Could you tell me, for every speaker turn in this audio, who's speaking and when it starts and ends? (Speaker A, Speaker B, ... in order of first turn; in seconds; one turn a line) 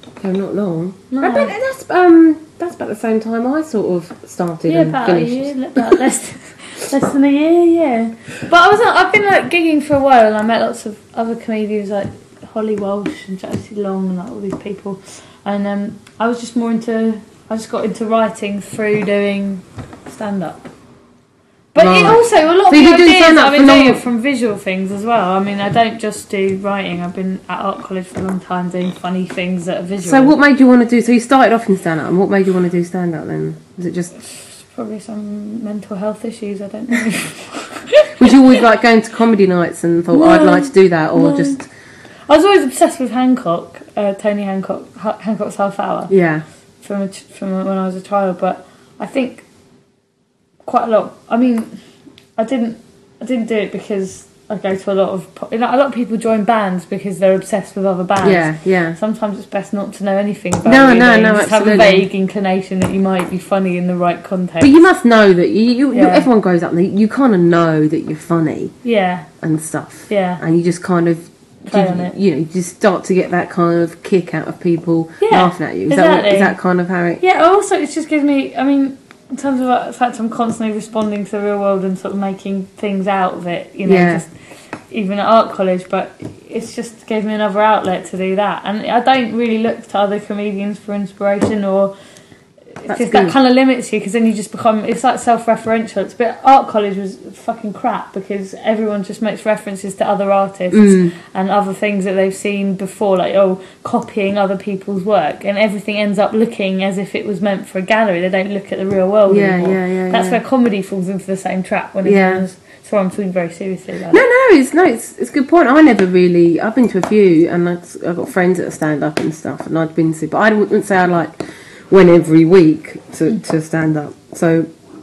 Speaker A: 0.2-5.9
Speaker B: 1.1-1.6
Speaker B: 4.7-20.7
Speaker B: 21.7-30.4
Speaker A: 21.8-24.0
Speaker A: 30.0-34.1
Speaker B: 34.6-38.6
Speaker A: 38.2-41.6
Speaker B: 40.1-41.6
Speaker B: 42.3-46.1
Speaker A: 46.1-46.4
Speaker B: 46.8-49.4
Speaker B: 50.6-51.7
Speaker B: 52.4-64.8
Speaker A: 58.2-59.0
Speaker A: 60.6-62.1
Speaker A: 64.6-68.7
Speaker B: 65.9-66.3
Speaker B: 68.8-69.3
Speaker A: 69.4-77.2
Speaker B: 70.1-70.4
Speaker B: 71.7-72.1
Speaker B: 75.2-76.5
Speaker B: 77.2-84.3
Speaker A: 83.8-84.2
Speaker B: 84.9-91.9
Speaker B: 92.8-114.2
Speaker A: 92.9-93.3
Speaker A: 100.7-101.1
Speaker A: 109.3-110.4
Speaker A: 112.0-112.4
Speaker A: 114.1-121.3
Speaker A: 121.9-124.7